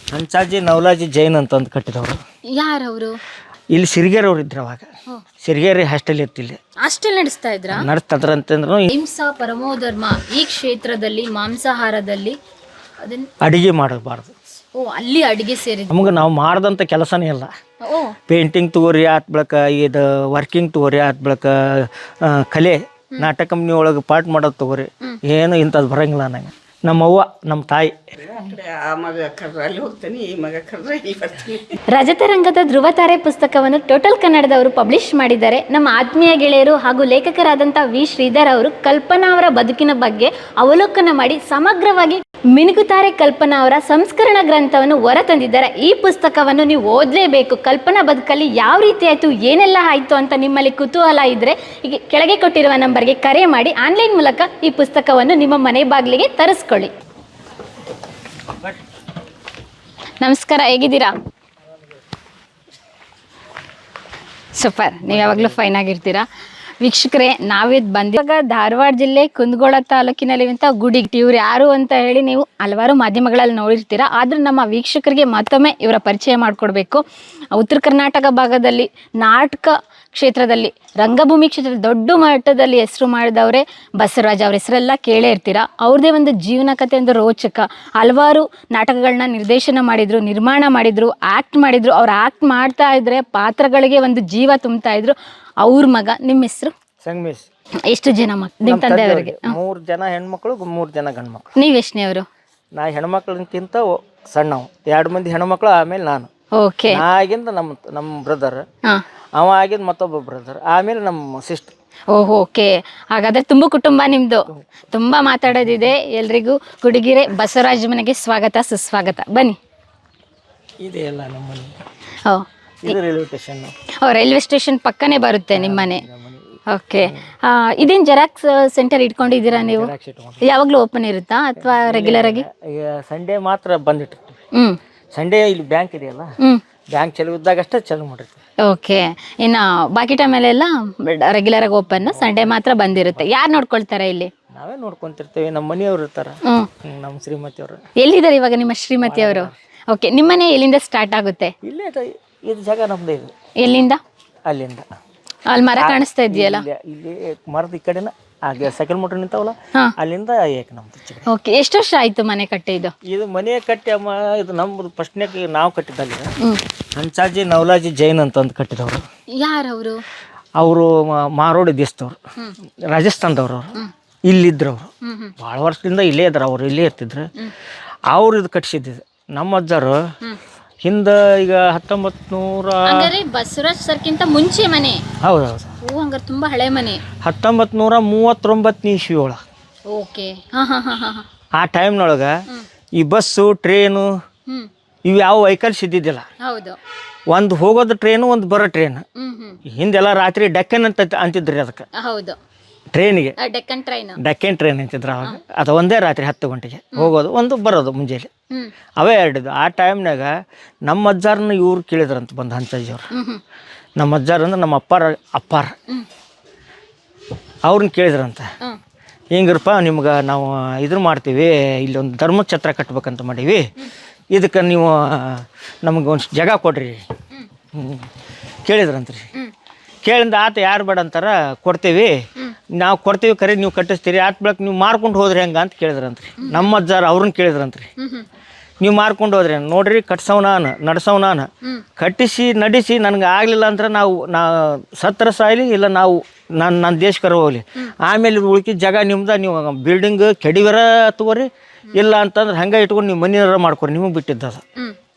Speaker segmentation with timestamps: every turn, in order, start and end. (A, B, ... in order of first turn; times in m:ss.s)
0:00.1-0:02.2 A
0:02.5-0:03.2 B
0:03.7-0:04.9 A
0:05.4-0:06.6 A
0:06.8-0:07.9 B
0:07.7-0:08.9 A
0:08.9-0:12.4 B
0:13.0-0:13.3 B
0:13.4-0:14.3 A
0:14.8-0:16.0 B
0:15.9-0:17.5 A
0:17.8-0:18.2 B
0:18.3-0:27.9 A
0:28.3-0:31.8 C
0:31.9-0:56.9 B
1:00.2-1:01.1 B
1:04.6-1:06.3 B
1:05.1-1:05.6 A
1:06.8-1:17.0 B
1:17.6-1:36.7 B
1:37.0-1:37.5 A
1:37.9-1:39.6 B
1:38.6-1:41.4 A
1:41.6-1:42.3 B
1:42.8-1:46.3 A
1:46.6-1:47.0 B
1:46.9-1:48.6 A
1:49.4-1:51.7 A
1:52.1-1:59.6 B
2:00.8-2:01.7 A
2:02.3-2:02.9 B
2:02.8-2:03.7 A
2:04.0-2:06.0 B
2:05.5-2:07.2 A
2:06.7-2:12.4 B
2:09.4-2:10.4 A
2:11.6-2:14.4 A
2:15.1-2:16.3 A
2:16.9-2:18.4 A
2:18.6-2:24.3 B
2:22.1-2:23.3 A
2:24.5-2:27.8 A
2:28.0-2:31.5 B
2:29.0-2:29.6 A
2:31.6-2:33.3 A
2:33.6-2:34.0 B
2:34.5-2:34.8 A
2:35.5-2:36.6 B
2:35.8-2:41.3 A
2:41.3-2:42.9 B
2:43.0-2:46.3 A
2:47.0-2:49.0 A
2:49.4-2:50.0 B
2:50.6-2:52.2 A
2:52.8-2:57.3 A
2:55.0-2:55.3 B
2:58.1-3:00.0 A
3:00.8-3:03.1 A
3:02.9-3:05.0 B
3:05.2-3:05.7 A
3:05.8-3:07.0 B
3:07.2-3:09.4 A
3:09.9-3:11.2 B
3:11.6-3:12.3 A
3:13.0-3:14.1 A
3:15.1-3:16.3 A
3:16.4-3:16.8 B
3:17.3-3:19.0 A
3:19.2-3:19.6 B
3:19.7-3:21.8 A
3:22.0-3:22.4 B
3:22.9-3:23.4 A
3:23.4-3:24.2 B
3:24.2-3:28.3 A
3:29.0-3:30.3 A
3:30.8-3:33.1 A
3:33.1-3:33.4 B
3:34.0-3:35.7 A
3:37.7-3:38.5 A
3:39.3-3:43.7 A
3:44.3-3:47.0 A
3:47.7-3:48.1 A
3:48.6-3:49.3 A
3:50.0-3:57.9 A
3:56.4-3:56.7 B
3:58.0-3:58.3 B
3:58.8-4:14.6 A